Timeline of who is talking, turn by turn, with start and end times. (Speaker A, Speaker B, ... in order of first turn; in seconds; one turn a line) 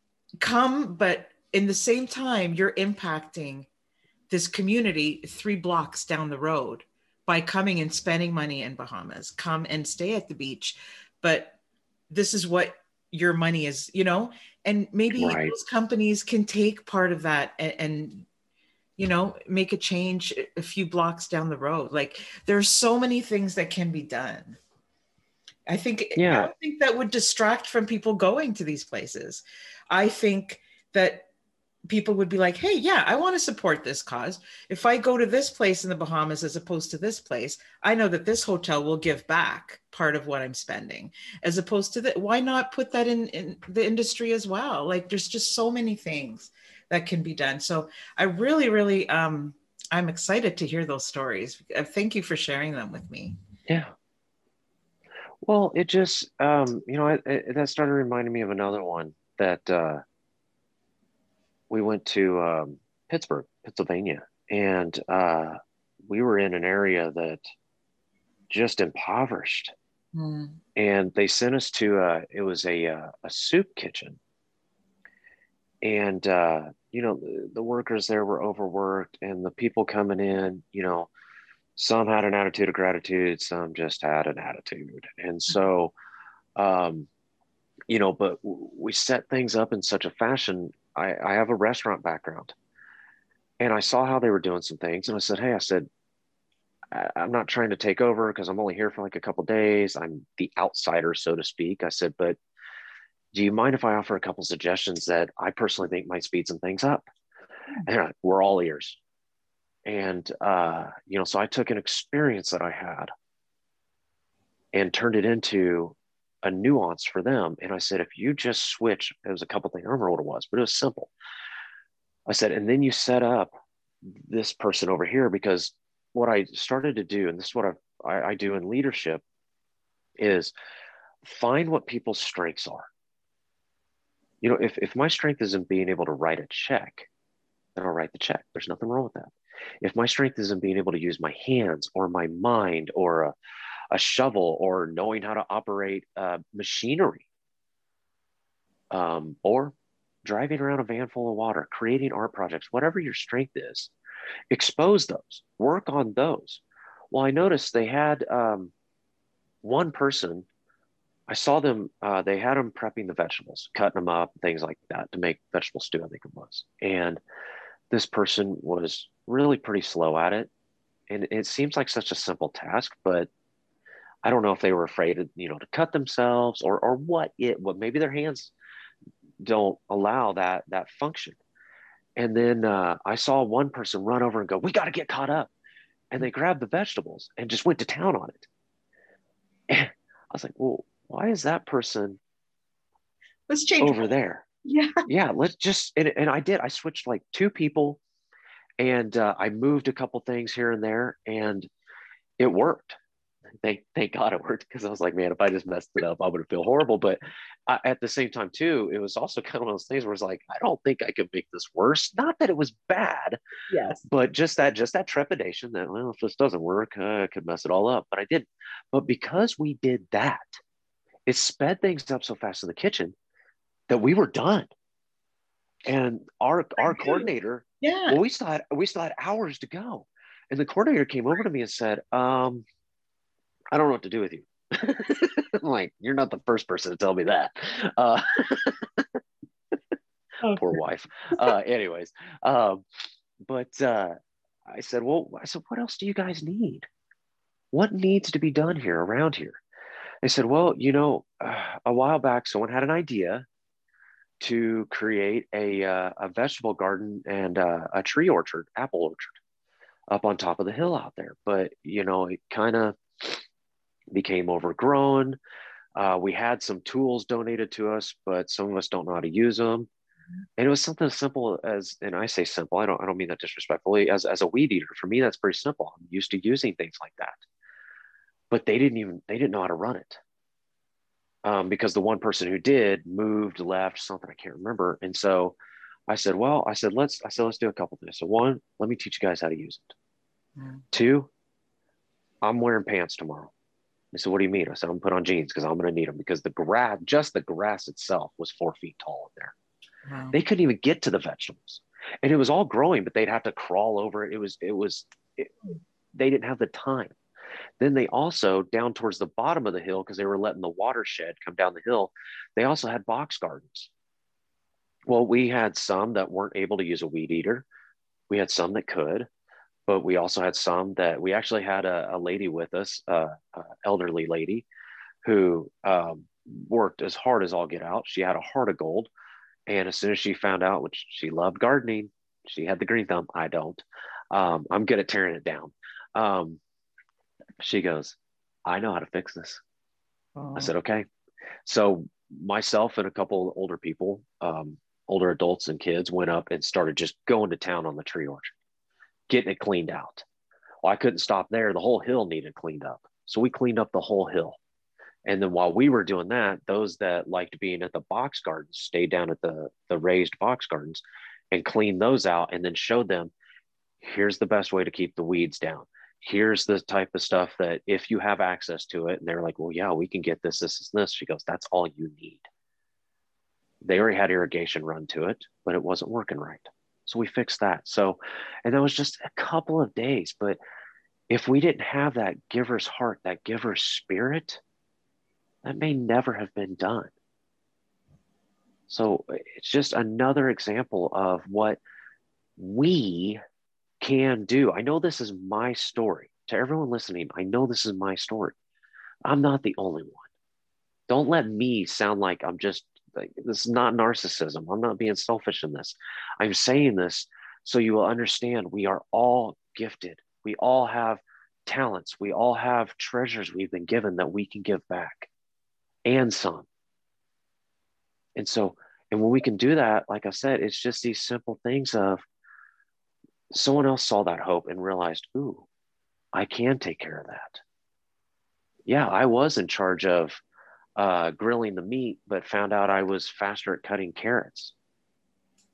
Speaker A: 0.4-3.7
Speaker A: 4.3-11.6
Speaker A: 12.1-18.3
Speaker B: 15.2-15.6
Speaker A: 19.0-24.6
Speaker A: 25.7-31.3
Speaker B: 26.2-26.5
Speaker A: 31.9-53.4
Speaker B: 55.4-60.0
Speaker B: 61.7-67.4
Speaker B: 68.5-69.7
Speaker A: 70.1-70.6
Speaker B: 70.8-74.2
Speaker B: 75.8-81.1
Speaker B: 81.8-85.9
Speaker B: 86.6-87.1
Speaker B: 87.9-92.5
Speaker B: 93.6-95.9
Speaker B: 96.9-102.4
Speaker B: 103.3-107.1
Speaker B: 107.8-109.0
Speaker B: 109.9-113.1
Speaker B: 114.7-121.1
Speaker B: 122.3-123.5
Speaker B: 124.0-129.2
Speaker B: 130.2-130.5
Speaker B: 131.2-132.9
Speaker B: 134.4-137.1
Speaker B: 137.8-143.3
Speaker B: 143.9-147.3
Speaker B: 148.9-153.9
Speaker B: 154.5-158.7
Speaker B: 159.6-160.5
Speaker B: 161.3-167.2
Speaker B: 167.9-170.5
Speaker B: 171.1-173.3
Speaker B: 174.2-178.5
Speaker B: 179.4-181.4
Speaker B: 182.2-185.5
Speaker B: 186.1-188.5
Speaker B: 189.7-192.2
Speaker A: 193.5-194.1
Speaker B: 193.8-194.4
Speaker A: 194.7-195.0
Speaker B: 195.1-198.0
Speaker B: 198.8-201.7
Speaker B: 202.4-202.9
Speaker B: 203.6-213.4
Speaker A: 213.7-214.0
Speaker B: 214.1-220.5
Speaker B: 221.3-223.2
Speaker B: 223.9-224.7
Speaker B: 225.8-232.7
Speaker A: 226.8-227.3
Speaker A: 227.8-228.2
Speaker B: 233.7-239.2
Speaker B: 240.5-242.8
Speaker B: 243.4-244.1
Speaker B: 244.7-246.9
Speaker B: 247.7-249.6
Speaker B: 250.2-253.5
Speaker B: 254.4-259.4
Speaker B: 260.1-263.4
Speaker B: 264.1-265.4
Speaker B: 265.9-269.9
Speaker B: 270.6-277.4
Speaker B: 278.5-280.2
Speaker B: 281.4-285.6
Speaker B: 286.1-289.9
Speaker A: 290.6-290.8
Speaker B: 290.9-291.3
Speaker B: 292.4-293.5
Speaker B: 294.1-299.5
Speaker A: 300.1-300.4
Speaker B: 300.3-305.5
Speaker B: 306.1-307.2
Speaker B: 307.8-313.9
Speaker B: 315.1-317.7
Speaker B: 318.3-319.3
Speaker B: 319.9-324.7
Speaker B: 325.2-329.1
Speaker B: 329.7-336.6
Speaker B: 337.6-339.6
Speaker A: 340.4-340.7
Speaker B: 340.6-341.1
Speaker B: 341.6-348.5
Speaker B: 349.3-350.2
Speaker B: 350.8-354.6
Speaker B: 355.2-363.3
Speaker B: 364.0-372.5
Speaker B: 373.8-380.6
Speaker B: 381.3-384.6
Speaker B: 385.6-387.1
Speaker B: 388.9-391.8
Speaker B: 392.6-393.4
Speaker B: 394.0-398.6
Speaker B: 399.3-400.3
Speaker B: 401.1-415.3
Speaker B: 416.1-416.7
Speaker B: 418.4-422.2
Speaker B: 423.5-425.7
Speaker B: 426.3-427.6
Speaker B: 428.9-430.4
Speaker B: 431.0-434.7